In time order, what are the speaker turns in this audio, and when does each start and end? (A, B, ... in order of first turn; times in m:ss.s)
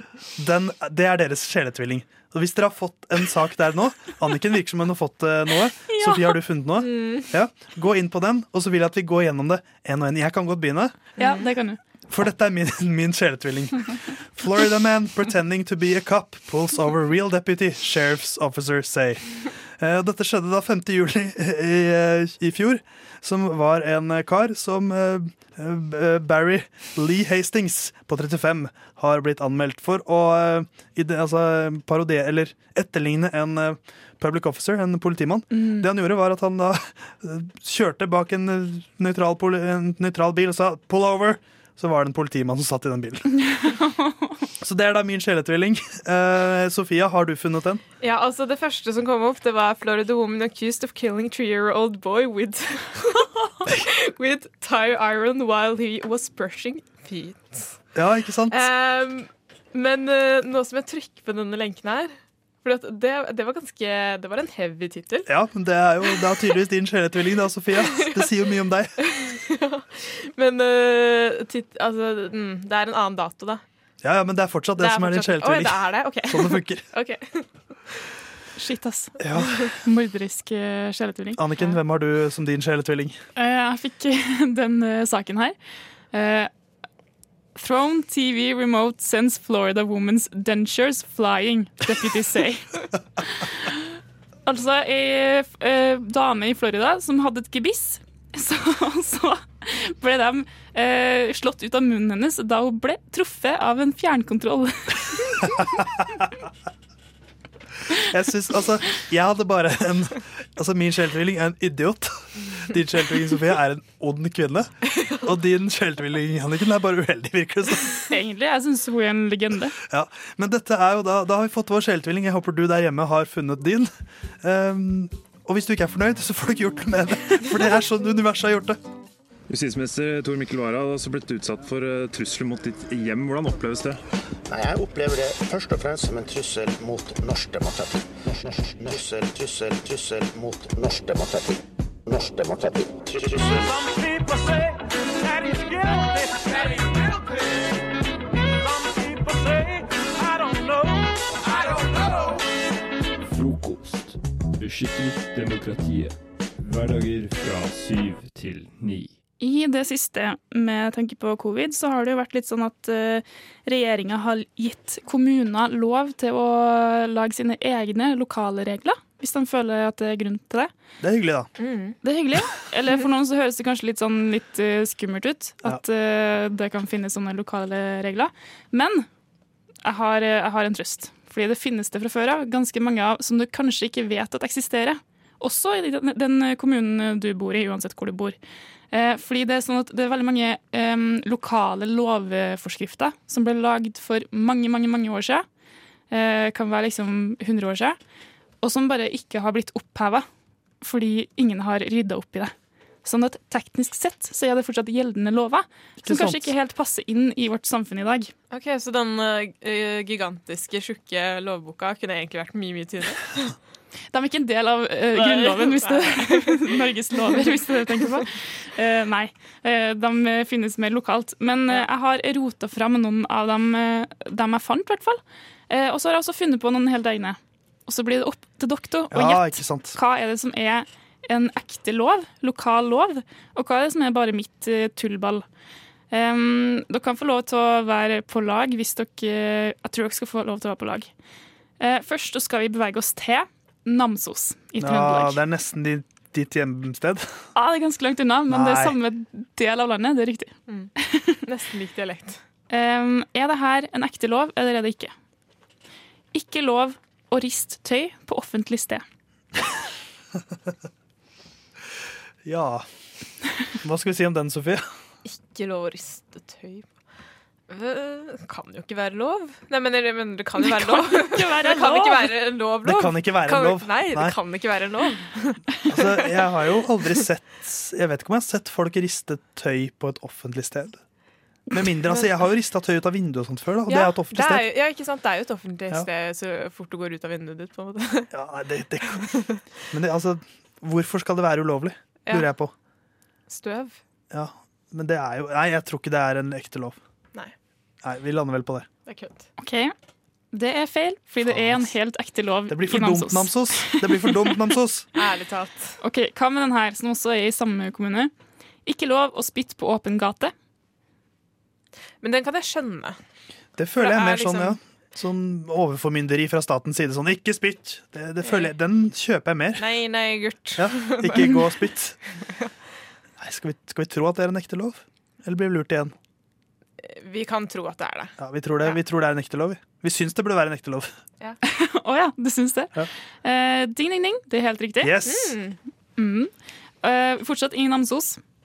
0:00.4-0:10.9 A
0:05.9-0:06.3 B
0:06.8-0:07.3 C
0:11.2-0:11.8 B
0:11.2-0:11.5 C
0:12.1-0:43.2 A
0:35.5-0:35.8 B
0:43.5-0:44.1 B
0:44.6-0:47.8 A
0:48.0-0:57.8 C
0:57.9-0:58.6 A
0:58.5-1:05.3 C
1:05.2-1:09.0 A
1:07.8-1:08.2 C
1:09.0-1:13.6 C
1:14.0-1:16.8 A
1:14.8-1:17.5 C
1:18.6-1:21.7 B
1:19.2-1:19.7 A
1:21.4-1:23.2 A
1:23.4-1:25.6 B
1:26.1-1:26.5 B
1:27.6-1:32.8 B
1:33.3-1:33.7 B
1:34.4-1:45.5 B
1:45.8-1:46.3 A
1:48.0-1:58.0 A
1:58.1-1:59.7 B
1:59.8-2:03.9 A
2:04.4-2:08.8 A
2:09.5-2:14.0 D
2:14.5-2:23.7 E
2:23.9-2:26.6 F
2:28.7-2:30.6 F
2:33.3-2:36.1 F
2:36.7-2:38.0 F
2:38.8-2:39.1 F
2:39.4-2:50.7 B
2:51.0-2:51.5 A
2:51.6-2:52.0 C
2:52.0-2:59.1 B
2:59.8-3:08.4 B
3:08.9-3:15.4 B
3:16.1-3:18.0 B
3:18.6-3:20.2 B
3:20.8-3:28.3 B
3:26.0-3:26.5 A
3:28.5-3:33.5 C
3:34.1-3:55.4 B
3:35.1-3:38.2 C
3:49.1-3:50.0 A
3:56.1-4:01.1 B
4:01.8-4:05.4 B
4:04.8-4:07.4 A
4:07.5-4:10.6 B
4:08.5-4:09.0 A
4:11.4-4:12.4 C
4:12.7-4:15.1 B
4:16.3-4:19.0 B
4:22.4-4:22.9 A
4:23.8-4:24.8 A
4:25.2-4:26.9 C
4:27.7-4:36.3 C
4:30.6-4:32.3 B
4:32.8-4:34.4 A
4:35.9-4:41.0 A
4:41.7-4:44.7 A
4:43.9-4:48.3 C
4:48.3-4:49.3 A
4:49.2-4:49.6 C
4:49.9-4:52.7 A
4:53.5-4:54.0 C
4:54.3-4:57.0 A
4:58.0-4:58.9 A
4:59.0-4:59.5 C
4:59.6-4:59.9 B
5:00.5-5:04.4 B
5:01.4-5:01.9 A
5:02.7-5:05.1 A
5:05.1-5:06.0 C
5:06.0-5:08.3 B
5:08.8-5:10.5 B
5:12.2-5:13.2 C
5:13.8-5:19.9 A
5:14.0-5:14.8 C
5:18.4-5:18.7 C
5:19.8-5:21.6 C
5:20.8-5:22.2 A
5:23.4-5:26.1 A
5:27.0-5:28.9 C
5:28.4-5:31.1 A
5:31.6-5:35.2 B
5:35.0-5:35.6 A
5:35.2-5:35.8 C
5:36.2-5:36.5 B
5:37.0-5:38.4 B